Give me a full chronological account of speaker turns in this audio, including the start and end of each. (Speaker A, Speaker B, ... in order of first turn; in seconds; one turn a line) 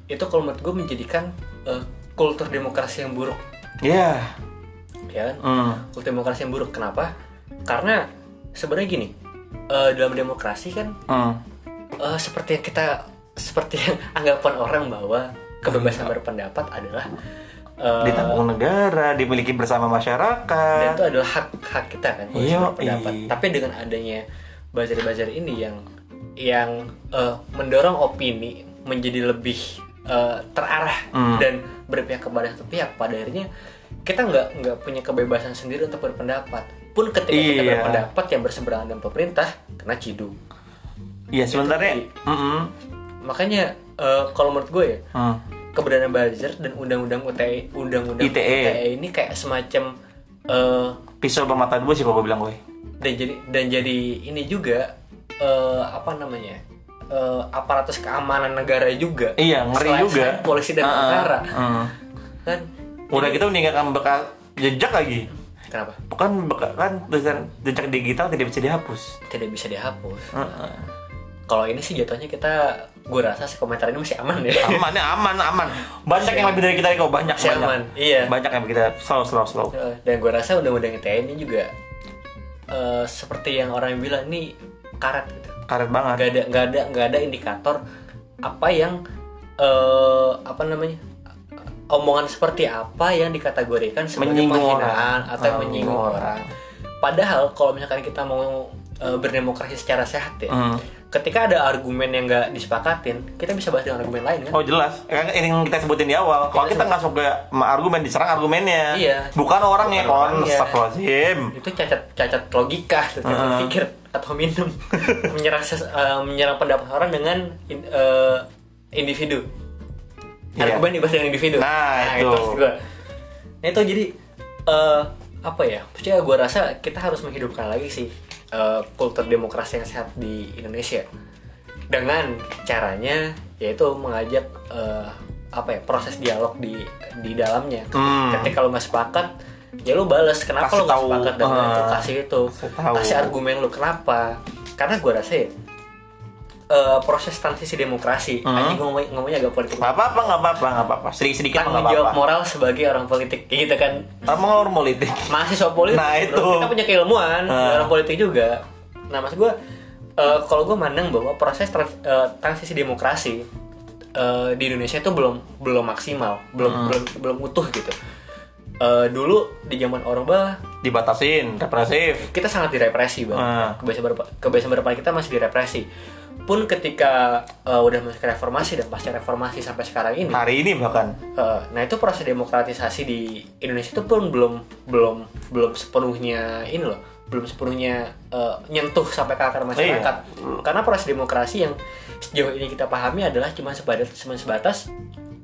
Speaker A: 0.1-3.4
Speaker B: 3.8-4.3
Speaker A: 5.1-7.1
Speaker B: 5.4-5.8
Speaker A: 7.7-9.1
Speaker A: 9.7-11.0
Speaker B: 11.1-11.4
Speaker A: 12.0-17.1
Speaker B: 15.7-16.1
Speaker A: 17.8-18.4
Speaker B: 18.0-21.0
Speaker A: 20.7-25.8
Speaker B: 22.3-23.3
Speaker A: 26.4-33.5
Speaker B: 31.1-31.5
Speaker A: 34.0-40.4
Speaker B: 37.3-38.0
Speaker B: 41.3-42.7
Speaker A: 41.5-42.1
Speaker A: 43.2-45.0
Speaker B: 45.1-45.4
Speaker A: 45.7-49.9
Speaker B: 48.2-48.8
Speaker A: 50.5-51.0
Speaker B: 51.2-52.6
Speaker A: 53.0-56.6
Speaker A: 57.1-61.5
Speaker B: 59.4-61.9
Speaker A: 62.5-63.5
Speaker B: 63.1-65.3
Speaker A: 65.7-66.0
Speaker B: 66.1-69.2
Speaker A: 69.3-70.4
Speaker B: 70.3-70.8
Speaker A: 71.5-74.9
Speaker B: 74.6-79.7
Speaker A: 76.1-76.6
Speaker A: 77.3-78.3
Speaker A: 79.7-81.7
Speaker A: 82.7-85.6
Speaker B: 85.7-86.3
Speaker A: 86.1-87.8
Speaker A: 88.4-89.0
Speaker A: 89.6-91.0
Speaker A: 91.9-96.5
Speaker B: 94.2-96.4
Speaker A: 97.0-100.6
Speaker B: 100.5-100.8
Speaker A: 101.1-104.6
Speaker B: 104.5-111.5
Speaker A: 106.5-106.9
Speaker A: 108.9-110.8
Speaker A: 111.5-119.5
Speaker B: 113.2-113.7
Speaker B: 115.0-115.2
Speaker A: 120.6-122.8
Speaker B: 120.6-120.9
Speaker B: 121.5-122.6
Speaker A: 123.6-124.1
Speaker A: 124.7-131.1
Speaker A: 131.9-139.3
Speaker B: 137.9-138.5
Speaker A: 139.8-145.5
Speaker B: 140.6-143.3
Speaker A: 146.7-150.0
Speaker B: 148.4-148.8
Speaker B: 149.8-152.2
Speaker A: 151.6-154.2
Speaker B: 154.2-155.3
Speaker A: 155.3-159.6
Speaker B: 155.9-156.7
Speaker B: 157.5-157.9
Speaker A: 160.2-163.4
Speaker A: 164.2-167.9
Speaker B: 166.6-167.0
Speaker A: 168.8-170.6
Speaker B: 170.8-172.3
Speaker A: 172.3-175.9
Speaker B: 173.3-173.8
Speaker A: 176.5-180.4
Speaker B: 180.3-181.2
Speaker A: 181.4-194.9
Speaker B: 189.8-190.6